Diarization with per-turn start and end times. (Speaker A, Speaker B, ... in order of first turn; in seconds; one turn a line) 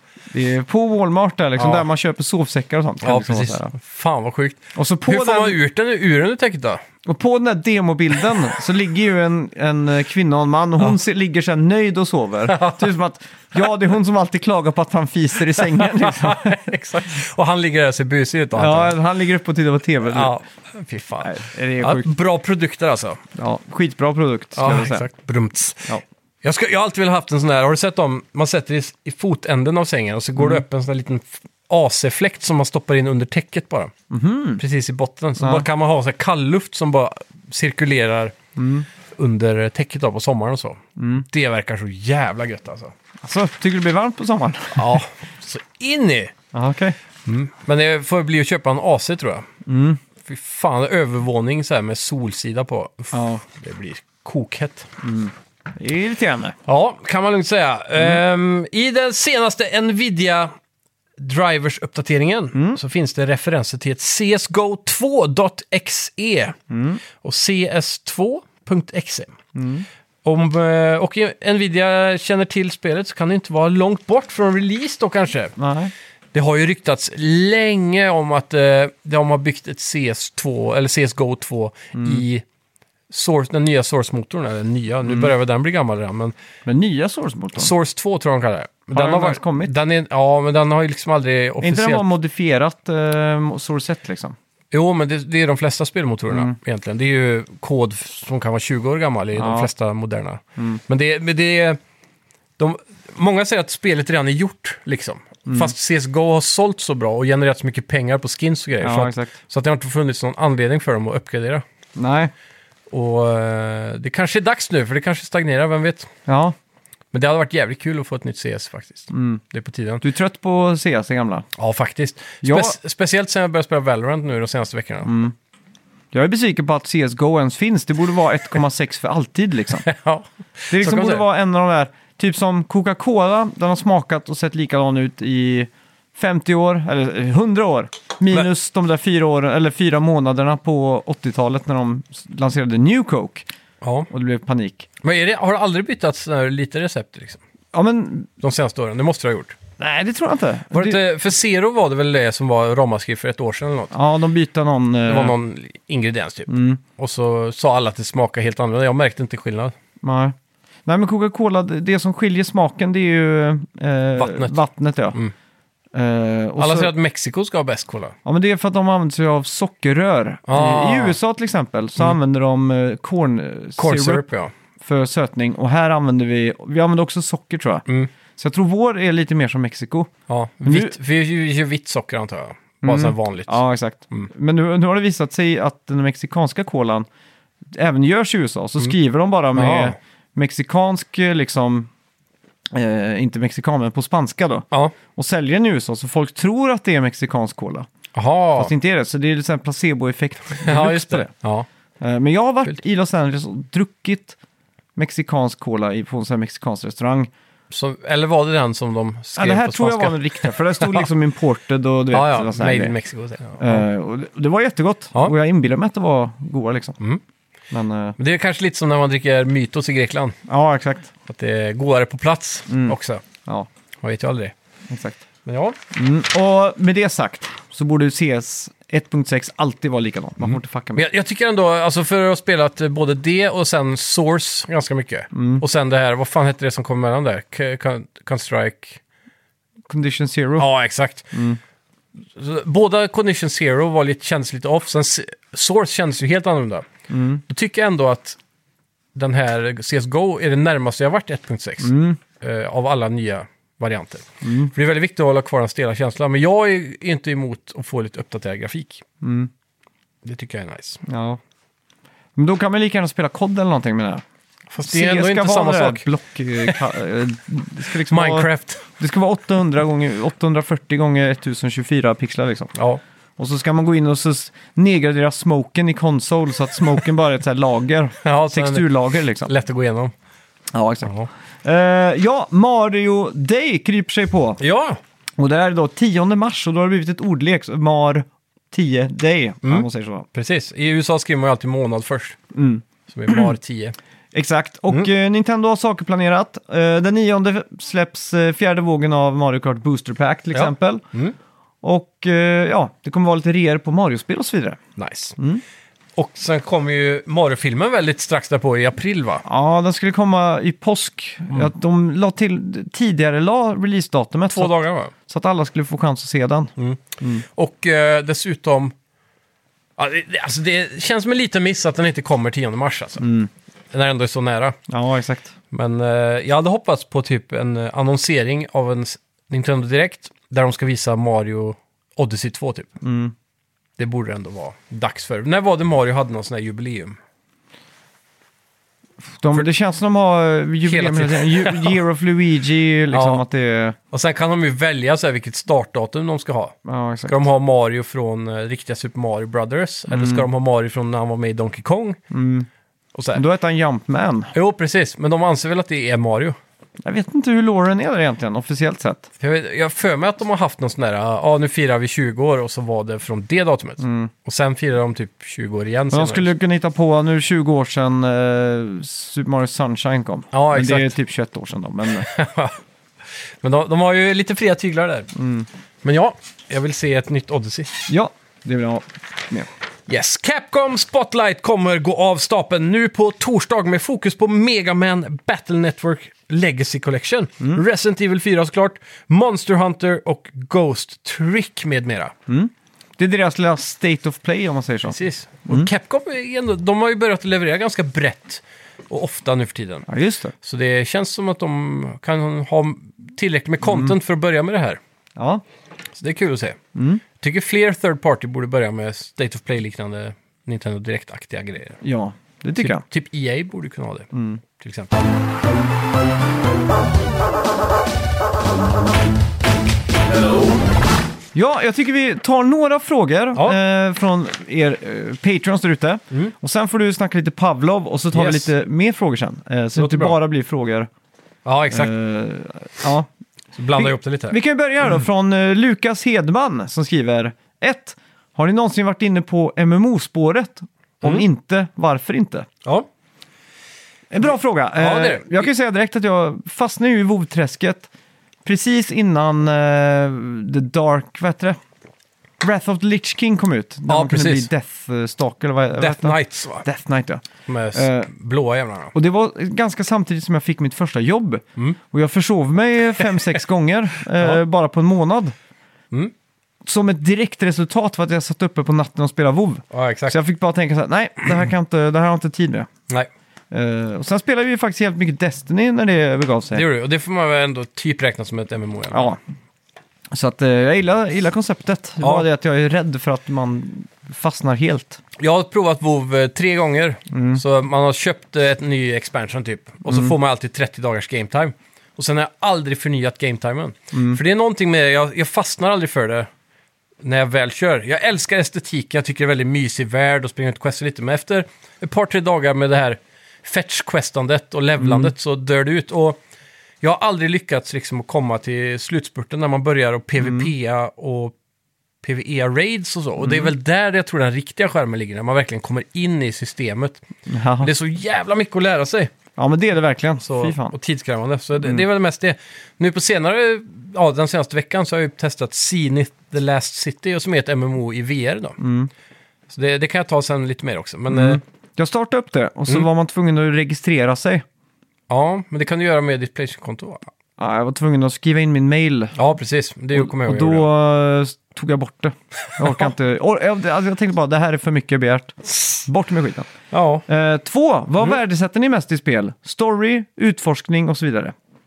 Speaker A: 0.3-3.7
Speaker B: 1.6-1.9
Speaker B: 3.0-6.8
Speaker A: 4.8-5.6
Speaker A: 7.0-16.6
Speaker B: 12.5-12.9
Speaker B: 15.6-18.9
Speaker A: 18.6-20.3
Speaker B: 20.0-23.2
Speaker A: 21.2-22.1
Speaker A: 23.4-25.1
Speaker B: 24.6-33.9
Speaker A: 30.4-30.6
Speaker A: 34.1-34.6
Speaker B: 34.6-38.4
Speaker A: 35.4-35.7
Speaker A: 38.6-38.9
Speaker B: 39.2-42.9
Speaker A: 41.0-41.2
Speaker A: 43.2-45.0
Speaker B: 44.8-46.3
Speaker A: 46.5-47.0
Speaker B: 47.3-49.5
Speaker A: 49.7-50.0
Speaker B: 50.2-54.9
Speaker A: 53.1-53.4
Speaker A: 55.0-56.5
Speaker B: 56.7-60.5
Speaker B: 61.2-66.6
Speaker A: 62.5-62.8
Speaker A: 66.7-67.0
Speaker B: 67.2-69.3
Speaker A: 69.5-69.9
Speaker B: 70.2-75.5
Speaker A: 75.6-75.9
Speaker B: 76.3-82.4
Speaker A: 82.0-82.2
Speaker B: 83.1-86.3
Speaker A: 85.1-85.3
Speaker A: 86.7-87.7
Speaker B: 87.6-92.1
Speaker A: 88.9-89.7
Speaker A: 91.6-94.4
Speaker B: 94.7-101.8
Speaker A: 96.3-96.5
Speaker A: 99.3-99.7
Speaker B: 102.6-111.6
Speaker A: 105.5-105.7
Speaker A: 108.8-109.3
Speaker A: 112.0-112.3
Speaker B: 112.9-116.1
Speaker A: 116.3-116.5
Speaker B: 117.1-120.0
Speaker A: 119.1-119.4
Speaker A: 120.0-121.5
Speaker B: 121.6-125.1
Speaker A: 122.4-122.8
Speaker A: 125.0-125.3
Speaker A: 126.1-129.9
Speaker B: 129.8-131.2
Speaker A: 130.7-143.5
Speaker B: 143.8-144.1
Speaker A: 144.1-144.9
Speaker B: 145.0-147.4
Speaker A: 147.7-148.3
Speaker B: 148.4-149.6
Speaker A: 149.8-151.0
Speaker B: 150.7-153.9
Speaker A: 153.9-155.3
Speaker B: 155.1-159.8
Speaker A: 156.5-156.8
Speaker A: 160.0-160.3
Speaker A: 160.9-165.2
Speaker B: 164.2-164.6
Speaker A: 165.9-166.9
Speaker B: 166.6-168.2
Speaker A: 168.2-174.2
Speaker B: 170.5-171.2
Speaker B: 173.8-174.5
Speaker A: 174.8-177.8
Speaker A: 178.4-180.1
Speaker B: 180.3-183.6
Speaker A: 180.7-180.9
Speaker A: 182.8-187.1
Speaker A: 187.7-191.9
Speaker B: 189.5-190.0
Speaker A: 192.7-197.9
Speaker B: 194.7-195.0
Speaker B: 198.1-198.7
Speaker A: 198.6-201.3
Speaker B: 200.6-201.7
Speaker A: 202.0-204.4
Speaker A: 205.0-207.3
Speaker B: 207.7-211.1
Speaker A: 209.4-212.9
Speaker B: 212.1-213.8
Speaker A: 213.6-217.0
Speaker A: 217.7-218.2
Speaker B: 218.2-220.4
Speaker A: 220.5-221.1
Speaker B: 221.3-223.2
Speaker A: 222.7-223.7
Speaker B: 224.0-224.5
Speaker A: 224.9-225.2
Speaker B: 225.4-225.8
Speaker A: 225.9-231.1
Speaker B: 230.4-239.0
Speaker A: 235.3-235.6
Speaker A: 239.9-240.7
Speaker B: 240.6-241.3
Speaker A: 241.3-241.6
Speaker B: 242.4-246.9
Speaker A: 247.1-247.4
Speaker B: 247.5-248.4
Speaker B: 249.2-259.1
Speaker A: 251.8-252.2
Speaker A: 254.4-254.7
Speaker A: 259.2-259.5
Speaker B: 260.2-261.0
Speaker A: 261.1-261.4
Speaker A: 262.4-264.2
Speaker B: 264.7-266.1
Speaker A: 264.9-272.7
Speaker B: 268.1-268.8
Speaker B: 272.8-273.0
Speaker A: 273.4-279.5
Speaker B: 278.2-280.1
Speaker A: 280.7-284.6
Speaker B: 281.0-281.3
Speaker B: 284.6-285.0
Speaker A: 285.4-290.3
Speaker B: 289.6-292.4
Speaker A: 292.5-293.5
Speaker B: 293.1-294.0
Speaker A: 294.3-301.0
Speaker B: 300.5-301.4
Speaker A: 301.8-304.8
Speaker B: 305.0-305.4
Speaker A: 305.4-305.6
Speaker B: 306.2-309.4
Speaker A: 309.5-317.4
Speaker B: 314.5-315.1
Speaker B: 316.8-318.9
Speaker B: 320.0-323.3
Speaker A: 323.2-323.5
Speaker B: 323.9-324.8
Speaker A: 324.9-325.5
Speaker B: 325.7-332.9
Speaker A: 333.0-333.3
Speaker B: 334.0-337.2
Speaker A: 339.4-344.0
Speaker B: 340.9-342.0
Speaker B: 343.1-343.4
Speaker B: 344.1-346.8
Speaker A: 346.9-347.4
Speaker B: 347.3-352.2
Speaker A: 350.1-350.5
Speaker A: 352.3-352.7
Speaker B: 353.1-353.4
Speaker A: 353.4-354.5
Speaker B: 354.5-356.6
Speaker A: 357.0-359.3
Speaker B: 359.4-366.5
Speaker A: 364.0-364.3
Speaker A: 366.1-372.3
Speaker B: 370.5-371.2
Speaker B: 372.2-372.8
Speaker B: 373.6-375.3
Speaker A: 375.4-375.7
Speaker B: 376.0-377.9
Speaker A: 378.1-379.7
Speaker B: 380.1-392.3
Speaker A: 392.5-395.2
Speaker B: 395.1-400.1
Speaker A: 400.1-400.5
Speaker B: 400.6-405.0
Speaker A: 403.8-404.1
Speaker A: 405.4-405.6
Speaker B: 406.2-406.8
Speaker A: 406.9-407.2
Speaker B: 407.4-412.0
Speaker A: 412.0-413.0
Speaker B: 412.8-415.2
Speaker A: 414.3-414.6
Speaker A: 421.5-431.1
Speaker B: 428.3-428.7
Speaker B: 430.0-430.4
Speaker B: 431.6-432.1
Speaker A: 431.9-433.3
Speaker B: 433.8-434.6
Speaker A: 434.0-442.7
Speaker A: 444.3-448.1
Speaker B: 445.0-445.7
Speaker A: 448.6-451.8
Speaker A: 452.6-458.3
Speaker B: 454.1-454.7
Speaker B: 456.0-456.9
Speaker B: 457.7-459.1
Speaker A: 459.1-465.5
Speaker B: 463.2-463.5
Speaker A: 466.9-472.9
Speaker B: 469.9-470.4
Speaker A: 473.7-476.8
Speaker B: 476.7-479.4
Speaker A: 479.1-479.4
Speaker A: 480.3-485.2
Speaker B: 482.2-482.5
Speaker B: 485.4-496.5
Speaker A: 487.3-487.6
Speaker A: 490.1-490.3
Speaker A: 494.1-494.4
Speaker B: 497.2-506.4
Speaker A: 505.0-505.3
Speaker B: 507.0-511.6
Speaker A: 510.4-510.7
Speaker B: 512.2-517.2
Speaker A: 513.4-513.7
Speaker A: 517.5-517.9
Speaker B: 517.8-519.3
Speaker A: 519.6-521.0
Speaker B: 520.4-528.8
Speaker A: 528.8-529.1
Speaker B: 529.7-531.6
Speaker A: 531.3-534.6
Speaker B: 535.3-537.3
Speaker A: 537.6-539.4
Speaker B: 539.4-540.9
Speaker A: 540.1-546.7
Speaker B: 542.8-543.0
Speaker B: 546.9-547.2
Speaker A: 547.3-551.5